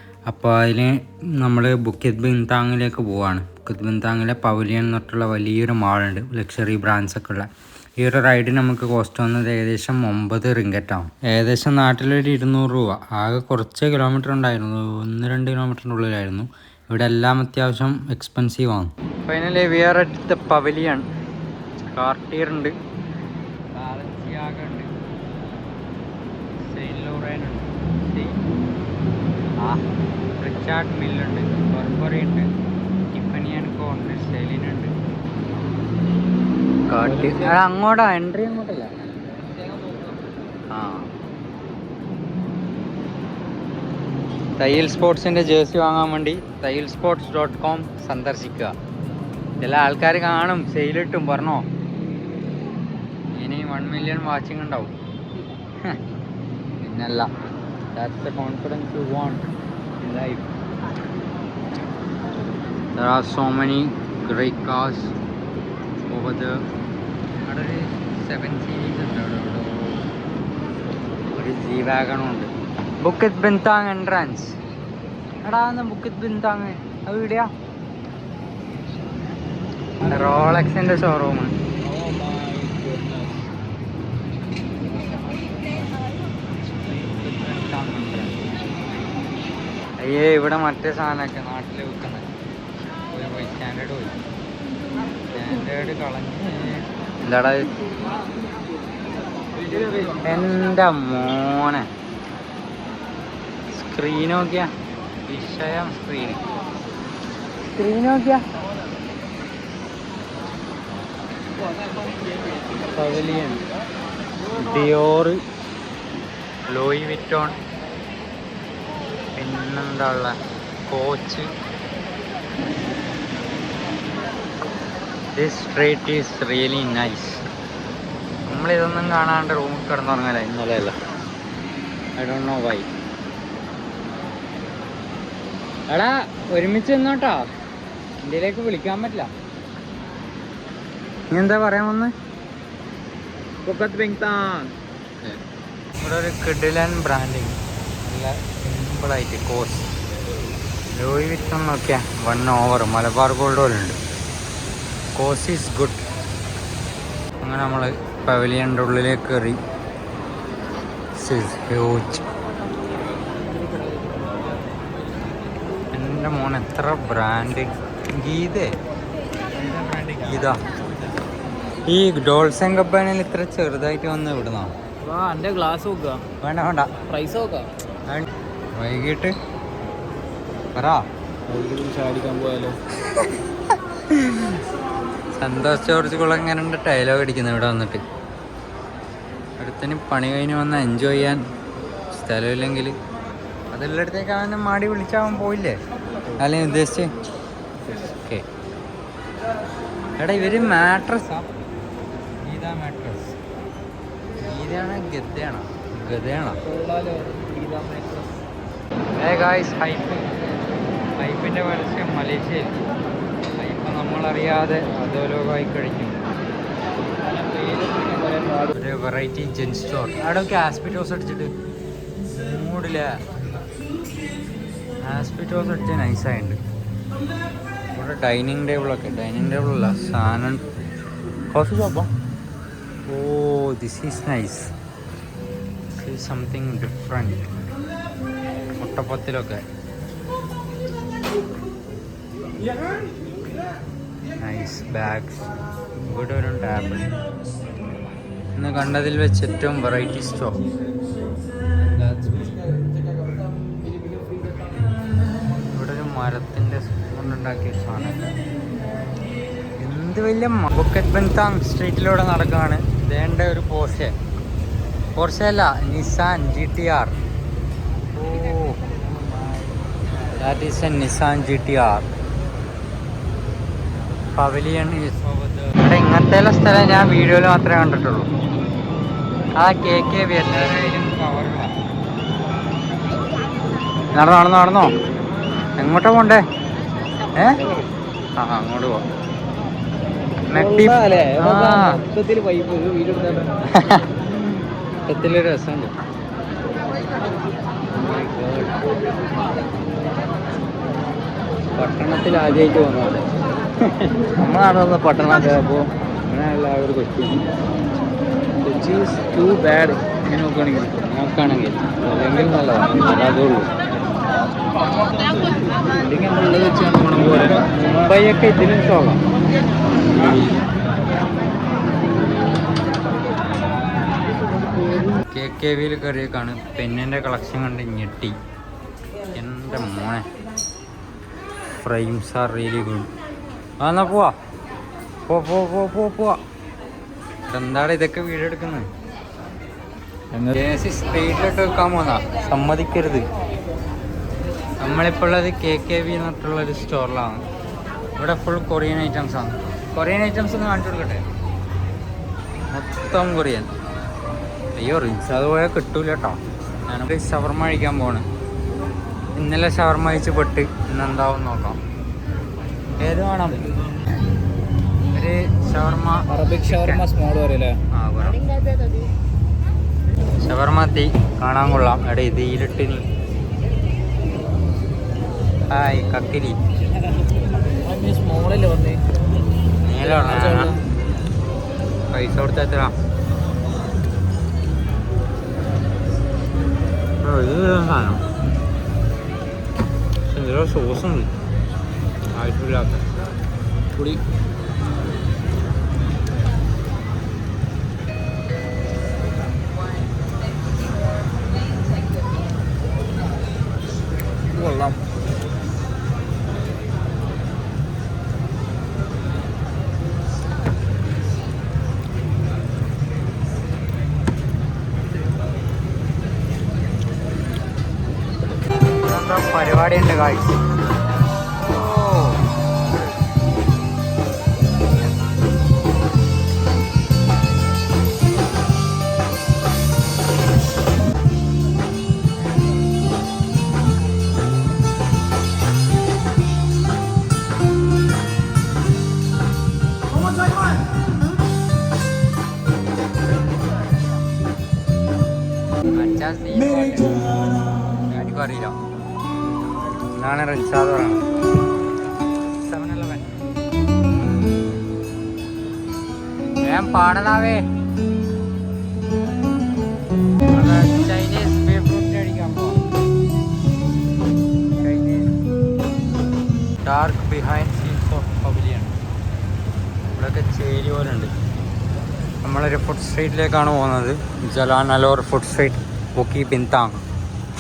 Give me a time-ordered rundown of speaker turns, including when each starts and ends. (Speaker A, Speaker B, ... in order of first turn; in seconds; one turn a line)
Speaker A: 0.3-7.5
Speaker A: 8.0-21.1
Speaker A: 21.9-22.8
Speaker A: 23.7-24.9
Speaker A: 26.7-28.4
Speaker A: 30.4-32.5
Speaker A: 33.1-34.9
Speaker A: 36.9-38.9
Speaker B: 37.0-37.6
Speaker A: 40.7-41.1
Speaker A: 44.6-48.7
Speaker A: 49.6-51.6
Speaker A: 53.3-54.9
Speaker A: 56.8-57.3
Speaker A: 58.0-60.5
Speaker A: 63.0-65.2
Speaker A: 66.1-66.6
Speaker A: 67.4-70.1
Speaker A: 71.3-72.5
Speaker A: 73.0-74.5
Speaker A: 75.4-77.5
Speaker A: 80.0-81.5
Speaker B: 81.8-83.5
Speaker A: 86.8-88.3
Speaker A: 90.0-92.2
Speaker A: 93.1-94.2
Speaker A: 95.3-97.7
Speaker B: 99.6-100.2
Speaker A: 100.1-101.9
Speaker A: 103.7-104.7
Speaker A: 105.3-106.4
Speaker A: 107.7-108.4
Speaker A: 112.9-113.7
Speaker A: 114.6-115.4
Speaker A: 116.7-117.6
Speaker A: 119.4-120.4
Speaker A: 120.9-121.5
Speaker A: 125.4-127.4
Speaker A: 128.5-130.9
Speaker A: 132.2-132.9
Speaker A: 135.9-137.5
Speaker A: 138.2-139.3
Speaker A: 141.3-142.1
Speaker B: 143.7-144.7
Speaker A: 146.0-149.9
Speaker A: 150.9-154.0
Speaker A: 155.2-156.0
Speaker A: 157.4-159.6
Speaker A: 161.2-162.3
Speaker B: 163.4-164.6
Speaker A: 165.9-168.8
Speaker A: 169.6-170.6
Speaker B: 169.7-170.5
Speaker A: 171.9-174.7
Speaker B: 175.0-176.2
Speaker A: 176.4-176.9
Speaker B: 177.1-177.7
Speaker A: 178.1-179.3
Speaker A: 180.8-181.0
Speaker B: 181.5-182.8
Speaker A: 183.1-183.4
Speaker A: 184.1-184.6
Speaker A: 185.4-188.0
Speaker A: 189.6-191.4
Speaker A: 192.1-192.9
Speaker A: 193.7-195.8
Speaker A: 196.4-197.1
Speaker A: 198.0-198.5
Speaker A: 200.2-201.5
Speaker A: 202.4-203.4
Speaker A: 204.4-206.6
Speaker B: 206.6-208.3
Speaker A: 209.2-210.3
Speaker A: 211.2-212.8
Speaker A: 213.6-216.2
Speaker B: 217.0-218.8
Speaker A: 218.8-221.5
Speaker A: 222.4-223.2
Speaker A: 225.0-226.6
Speaker A: 227.9-230.6
Speaker A: 231.6-232.1
Speaker A: 233.1-234.7
Speaker A: 236.0-237.5
Speaker A: 238.8-239.6
Speaker A: 244.4-247.1
Speaker A: 248.6-250.6
Speaker B: 252.0-252.4
Speaker B: 254.1-254.6
Speaker A: 255.7-258.4
Speaker A: 259.8-264.1
Speaker A: 265.2-267.1
Speaker A: 268.1-272.1
Speaker A: 274.4-278.3
Speaker A: 279.6-281.8
Speaker A: 284.1-284.9
Speaker A: 285.8-286.4
Speaker A: 287.4-287.6
Speaker A: 288.4-289.0
Speaker B: 290.5-293.6
Speaker A: 290.5-292.0
Speaker A: 293.7-295.9
Speaker A: 297.9-298.8
Speaker A: 301.8-303.2
Speaker A: 303.8-304.3
Speaker B: 304.4-305.9
Speaker A: 306.3-307.4
Speaker B: 308.6-310.8
Speaker A: 310.6-313.7
Speaker B: 315.9-317.8
Speaker A: 317.9-319.2
Speaker A: 320.1-320.5
Speaker A: 325.1-328.4
Speaker A: 329.3-330.3
Speaker A: 331.8-333.1
Speaker A: 333.8-334.3
Speaker A: 335.3-336.4
Speaker A: 337.5-338.9
Speaker A: 340.4-343.3
Speaker A: 344.8-347.4
Speaker A: 348.2-351.2
Speaker A: 352.7-353.7
Speaker A: 354.8-358.3
Speaker A: 359.4-361.8
Speaker A: 363.0-363.6
Speaker A: 365.1-367.1
Speaker B: 366.3-367.8
Speaker A: 367.9-368.4
Speaker A: 370.4-373.0
Speaker A: 375.7-376.6
Speaker B: 377.7-379.0
Speaker A: 379.8-380.7
Speaker B: 380.1-380.8
Speaker A: 382.1-382.9
Speaker A: 387.2-388.2
Speaker A: 390.3-391.3
Speaker A: 392.3-393.1
Speaker B: 394.0-394.2
Speaker B: 404.5-405.0
Speaker A: 419.0-420.6
Speaker A: 421.6-422.4
Speaker A: 445.9-447.2
Speaker A: 448.1-448.8
Speaker A: 450.1-451.2
Speaker A: 452.5-453.4
Speaker A: 456.6-457.6
Speaker A: 460.5-462.8
Speaker A: 464.8-465.3
Speaker A: 466.8-468.9
Speaker A: 470.2-471.3
Speaker A: 472.4-477.0